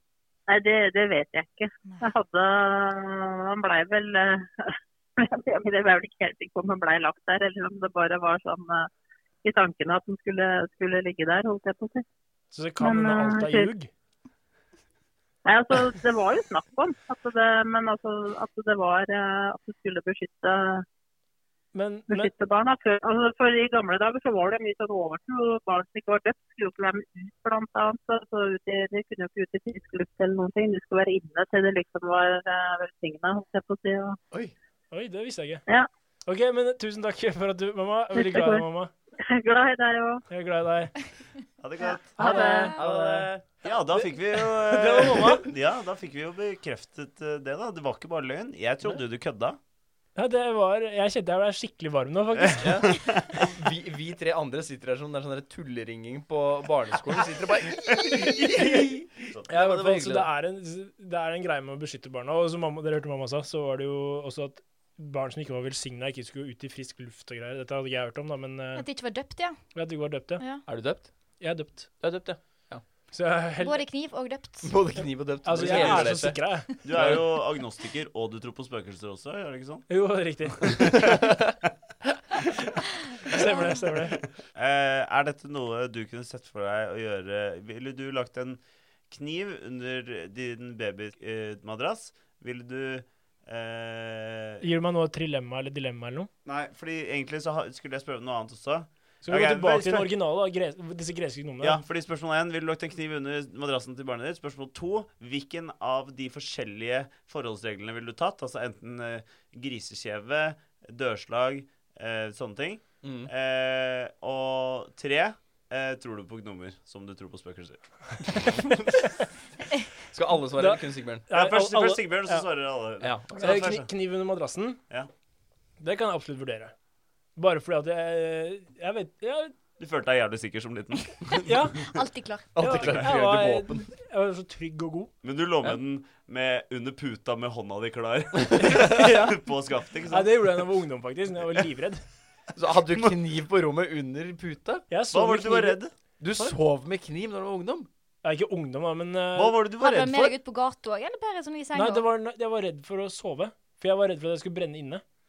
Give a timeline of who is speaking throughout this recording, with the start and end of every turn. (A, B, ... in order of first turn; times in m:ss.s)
0:00.5-0:08.9 A
0:09.4-0:12.0 A
0:12.5-0:13.9 B
0:12.8-0:13.7 A
0:15.4-0:20.8 A
0:21.7-0:22.3 B
0:22.1-0:34.2 A
0:34.9-0:35.6 B
0:36.2-0:38.9 B
0:38.2-0:38.6 A
0:39.2-0:40.2 A
0:40.3-0:41.1 B
0:41.6-0:42.2 C
0:42.2-0:42.8 A
0:42.2-0:43.3 B
0:42.2-0:42.7 D
0:42.7-0:45.4 E
0:43.6-0:49.6 C
0:44.9-0:45.4 B
0:50.2-0:53.0 B
0:52.4-0:53.4 C
0:52.6-1:00.3 E
0:58.2-0:58.9 B
0:59.5-1:08.8 B
1:08.8-1:09.7 D
1:09.7-1:10.6 B
1:10.7-1:11.1 E
1:11.4-1:12.0 B
1:12.0-1:12.8 E
1:13.1-1:13.8 B
1:13.6-1:14.9 D
1:14.6-1:17.2 E
1:15.4-1:16.7 B
1:15.6-1:16.3 C
1:16.8-1:19.9 C
1:19.9-1:21.2 B
1:21.0-1:21.5 E
1:23.2-1:24.2 B
1:24.6-1:34.6 C
1:34.6-1:36.3 B
1:36.4-1:40.1 C
1:39.2-1:41.8 B
1:41.6-1:57.8 C
1:53.0-1:53.3 E
1:58.6-1:58.9 E
2:00.0-2:01.2 E
2:00.6-2:02.4 B
2:01.3-2:03.9 C
2:03.0-2:03.7 E
2:03.4-2:04.8 B
2:05.8-2:06.7 B
2:07.4-2:09.6 B
2:09.8-2:11.7 C
2:11.4-2:11.9 B
2:11.9-2:12.5 D
2:12.5-2:13.9 E
2:12.6-2:15.1 B
2:12.8-2:13.1 C
2:15.2-2:20.4 C
2:18.6-2:19.4 B
2:20.1-2:22.0 B
2:22.6-2:24.9 E
2:24.9-2:25.8 B
2:25.1-2:25.9 C
2:26.2-2:27.9 E
2:28.2-2:29.6 B
2:29.4-2:30.4 C
2:29.8-2:32.1 D
2:31.8-2:35.0 B